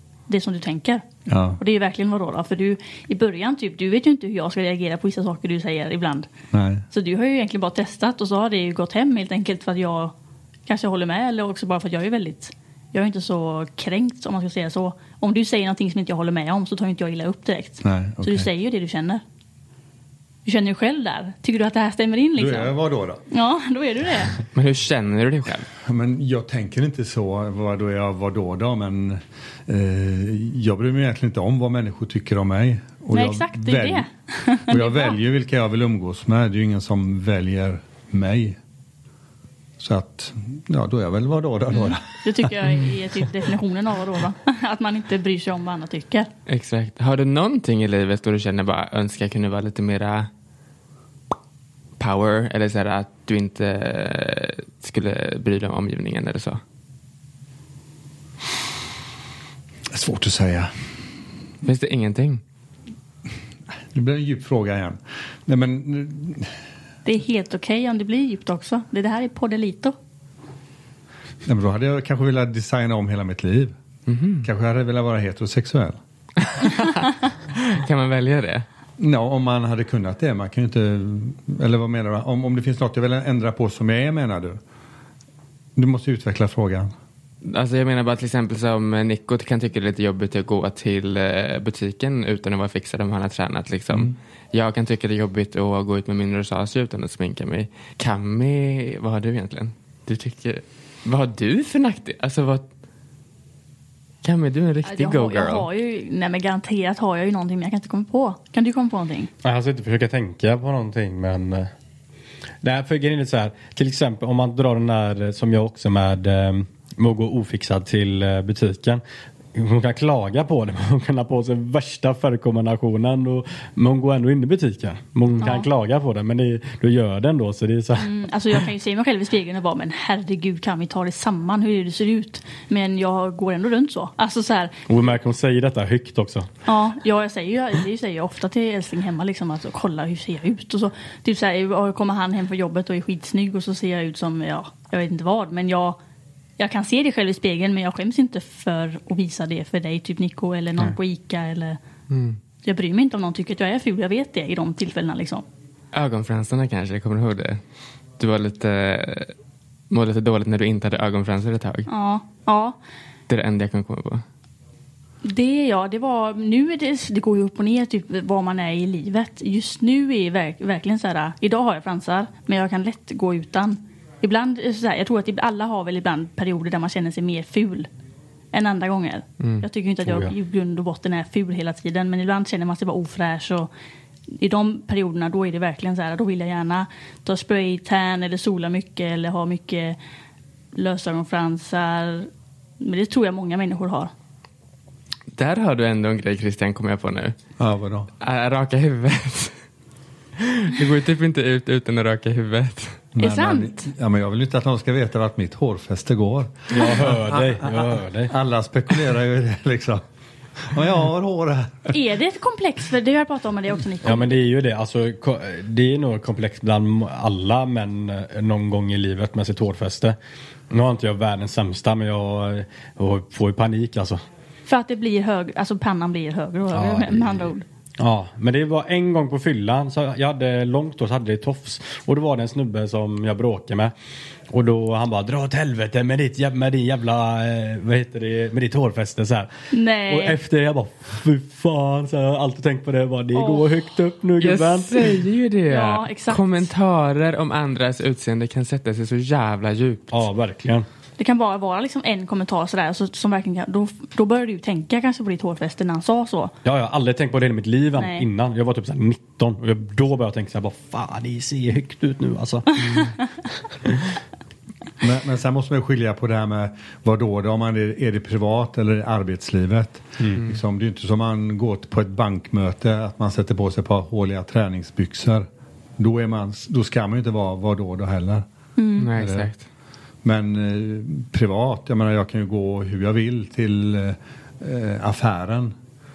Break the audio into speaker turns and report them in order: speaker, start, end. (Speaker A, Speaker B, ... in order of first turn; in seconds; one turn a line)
Speaker A: 0.3-1.0
Speaker B: 1.3-1.6
Speaker A: 1.6-6.3
Speaker B: 6.5-6.8
Speaker A: 6.9-10.1
Speaker A: 10.7-19.2
Speaker B: 17.8-18.5
Speaker A: 20.4-22.7
Speaker B: 22.4-23.2
Speaker A: 23.3-24.3
Speaker C: 24.5-25.7
Speaker B: 25.9-34.1
Speaker A: 33.1-35.1
Speaker B: 34.7-38.6
Speaker B: 39.8-42.6
Speaker A: 42.2-46.3
Speaker C: 46.5-50.3
Speaker C: 52.0-56.6
Speaker B: 59.9-60.7
Speaker C: 61.6-62.4
Speaker B: 63.9-66.5
Speaker A: 67.0-69.9
Speaker B: 71.4-73.7
Speaker C: 74.1-74.5
Speaker B: 74.4-76.0
Speaker C: 76.4-78.6
Speaker B: 79.0-84.6
Speaker B: 85.8-86.9
Speaker C: 87.4-102.7
Speaker C: 104.2-105.7
Speaker A: 104.8-109.3
Speaker D: 109.4-111.7
Speaker D: 112.6-119.0
Speaker D: 119.5-128.1
Speaker A: 125.4-125.7
Speaker A: 128.0-134.9
Speaker D: 134.9-136.5
Speaker A: 136.7-146.0
Speaker A: 146.6-151.8
Speaker C: 152.1-152.4
Speaker A: 152.6-155.4
Speaker C: 155.9-157.6
Speaker C: 158.2-159.3
Speaker C: 159.9-161.9
Speaker A: 161.9-162.8
Speaker C: 163.3-164.2
Speaker A: 165.2-177.9
Speaker A: 178.5-183.7
Speaker C: 179.4-179.6
Speaker D: 180.0-180.3
Speaker A: 184.3-190.0
Speaker A: 190.7-192.3
Speaker A: 192.8-194.1
Speaker C: 195.3-197.3
Speaker B: 197.6-198.1
Speaker C: 198.2-199.6
Speaker C: 200.4-203.0
Speaker B: 203.1-210.0
Speaker A: 203.2-203.9
Speaker D: 206.7-208.3
Speaker B: 210.6-211.9
Speaker A: 211.9-214.3
Speaker D: 214.0-220.2
Speaker D: 220.7-224.2
Speaker A: 224.7-227.6
Speaker D: 226.7-227.5
Speaker D: 228.0-233.9
Speaker D: 234.5-239.5
Speaker A: 239.7-240.4
Speaker D: 240.1-245.1
Speaker A: 243.3-243.7
Speaker C: 244.4-250.1
Speaker A: 245.7-246.7
Speaker D: 250.1-250.8
Speaker A: 251.2-256.5
Speaker D: 256.6-263.3
Speaker A: 258.0-258.2
Speaker B: 265.0-275.5
Speaker B: 276.0-278.4
Speaker A: 278.8-279.1
Speaker C: 279.0-279.6
Speaker B: 279.1-279.5
Speaker B: 280.2-285.7